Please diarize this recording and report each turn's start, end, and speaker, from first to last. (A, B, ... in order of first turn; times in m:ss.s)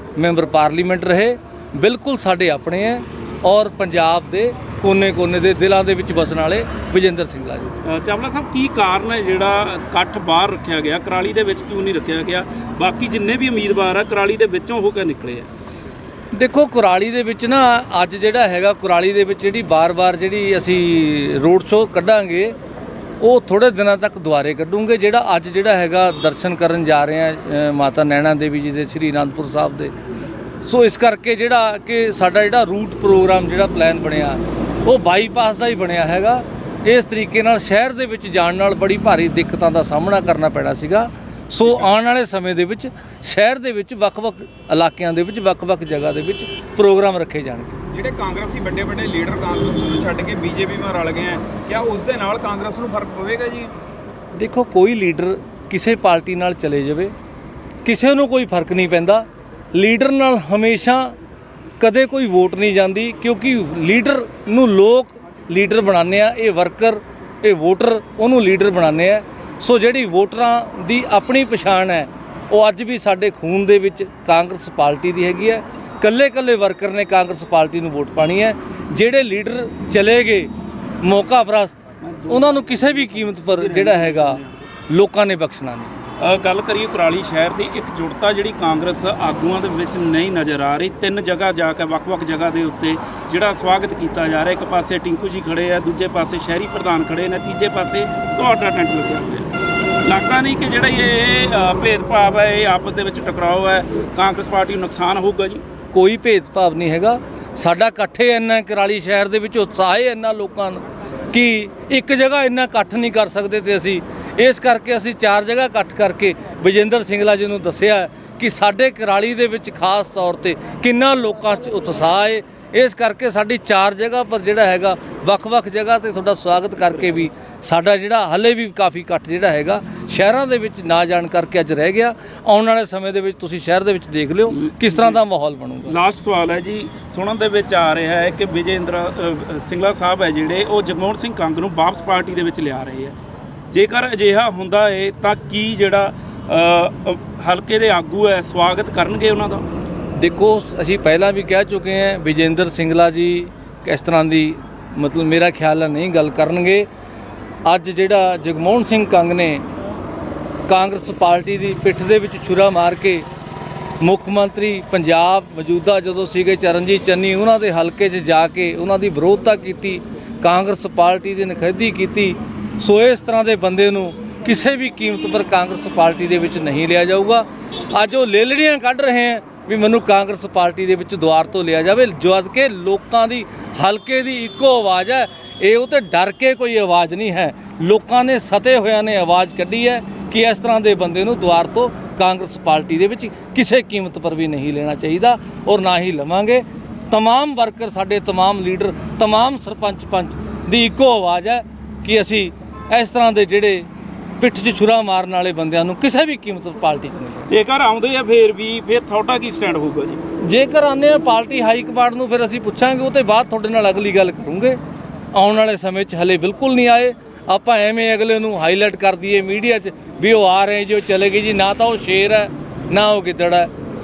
0:00.2-0:07.7 A
0:07.8-0:15.5 B
0:16.3-0:22.5 A
0:23.2-0:29.9 A
0:30.6-0:47.8 A
0:47.9-0:53.7 C
0:54.3-0:57.1 A
0:57.8-1:01.1 A
1:01.8-1:20.5 A
1:21.0-1:26.0 A
1:22.0-1:24.6 B
1:26.2-1:39.5 B
1:40.0-1:45.6 B
1:45.9-2:16.0 A
2:06.9-2:07.2 B
2:14.5-2:15.2 B
2:15.8-2:23.1 B
2:23.7-2:29.6 B
2:30.2-2:36.9 A
2:37.6-2:39.6 A
2:40.7-2:43.2 A
2:44.0-3:23.9 A
3:24.4-3:27.5 A
3:27.5-3:30.2 B
3:30.4-3:34.8 A
3:35.3-3:43.7 A